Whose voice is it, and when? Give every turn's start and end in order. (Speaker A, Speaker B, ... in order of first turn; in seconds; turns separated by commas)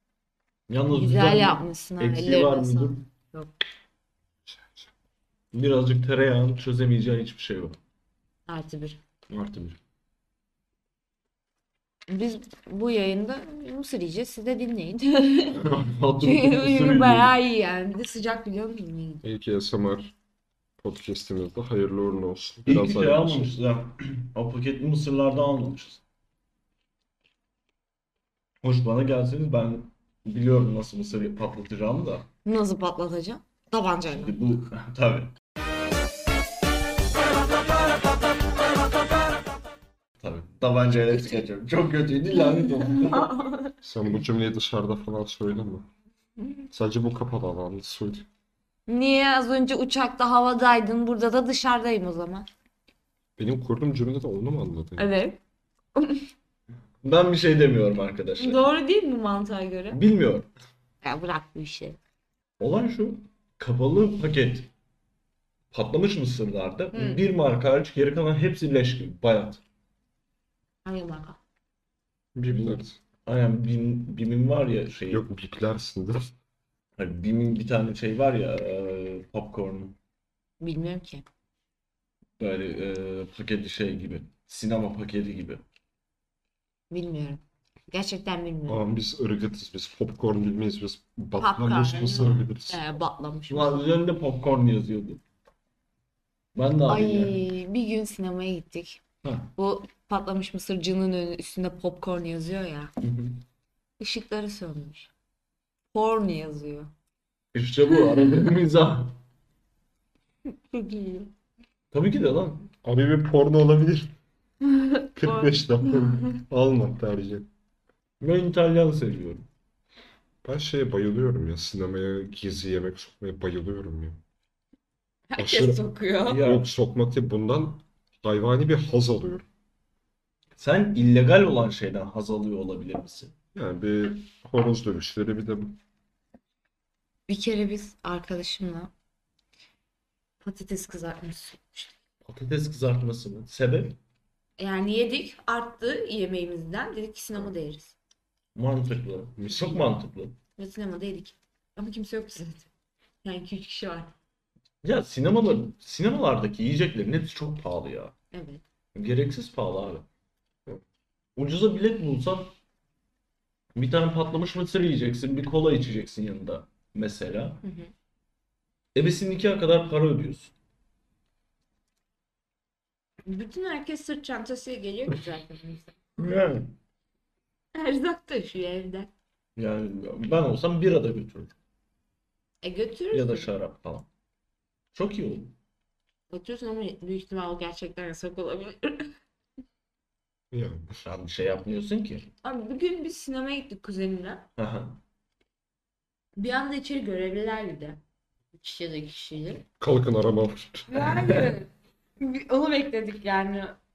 Speaker A: 0.7-3.0, Speaker B: 0.9-3.5, Speaker C: 4.5-4.9, Speaker A: 5.5-7.8, Speaker B: 8.5-9.0, Speaker A: 9.3-9.8, Speaker B: 12.1-15.6, Speaker A: 15.6-17.3, Speaker B: 16.2-19.3, Speaker C: 19.2-20.1, Speaker C: 20.8-23.5, Speaker A: 22.7-26.0, Speaker A: 28.6-32.3, Speaker B: 32.5-34.3, Speaker A: 34.1-35.3, Speaker A: 40.2-43.3, Speaker B: 40.9-41.4, Speaker B: 42.5-43.7, Speaker C: 43.8-45.9, Speaker B: 46.4-46.7, Speaker C: 46.7-48.3, Speaker B: 48.9-52.5, Speaker C: 53.4-55.1, Speaker B: 55.0-55.4, Speaker B: 56.0-56.3, Speaker A: 57.0-58.6, Speaker B: 58.4-60.0, Speaker A: 59.9-60.5, Speaker B: 61.0-62.0, Speaker A: 62.6-64.7, Speaker A: 65.7-69.6, Speaker B: 66.9-67.2, Speaker B: 70.8-71.4, Speaker C: 72.4-73.0, Speaker A: 72.5-75.3, Speaker C: 75.1-76.3, Speaker A: 77.0-80.0, Speaker B: 80.6-81.2, Speaker A: 82.4-85.6, Speaker B: 86.9-88.9, Speaker C: 88.7-92.8, Speaker B: 91.4-93.9, Speaker A: 93.5-95.2, Speaker A: 96.5-97.4, Speaker B: 96.9-99.0, Speaker A: 99.2-99.5, Speaker B: 99.6-102.9, Speaker A: 103.0-103.4, Speaker B: 104.0-105.1, Speaker B: 105.9-106.9, Speaker A: 107.5-109.2, Speaker B: 110.5-111.3, Speaker A: 111.9-112.7, Speaker C: 112.8-114.1, Speaker B: 114.6-116.4, Speaker C: 115.2-117.5, Speaker A: 118.2-119.5, Speaker C: 120.4-124.2, Speaker B: 125.3-126.5, Speaker C: 125.4-125.8, Speaker A: 126.2-126.7, Speaker C: 126.3-129.4, Speaker A: 130.6-133.3, Speaker C: 133.6-135.8, Speaker B: 137.3-138.9, Speaker B: 140.4-141.9, Speaker A: 142.3-144.0, Speaker B: 144.6-147.9, Speaker A: 148.6-150.3, Speaker B: 149.5-149.8, Speaker B: 150.6-152.7, Speaker B: 153.2-154.1, Speaker A: 154.8-158.1, Speaker B: 158.3-158.6, Speaker A: 158.9-160.1, Speaker A: 161.4-162.5, Speaker A: 163.8-167.6, Speaker B: 167.6-167.9, Speaker A: 168.9-170.5, Speaker B: 173.2-175.9, Speaker A: 176.2-176.7, Speaker B: 177.7-179.1, Speaker A: 179.6-181.5, Speaker B: 182.6-183.5, Speaker A: 183.1-184.1, Speaker A: 184.9-185.5, Speaker B: 186.3-189.1, Speaker C: 190.5-191.0, Speaker A: 191.0-192.3, Speaker B: 192.4-194.5, Speaker A: 194.6-195.0, Speaker B: 196.4-198.0, Speaker B: 198.5-199.6, Speaker C: 199.8-201.1, Speaker B: 200.9-201.7, Speaker A: 201.1-201.4, Speaker B: 202.2-203.8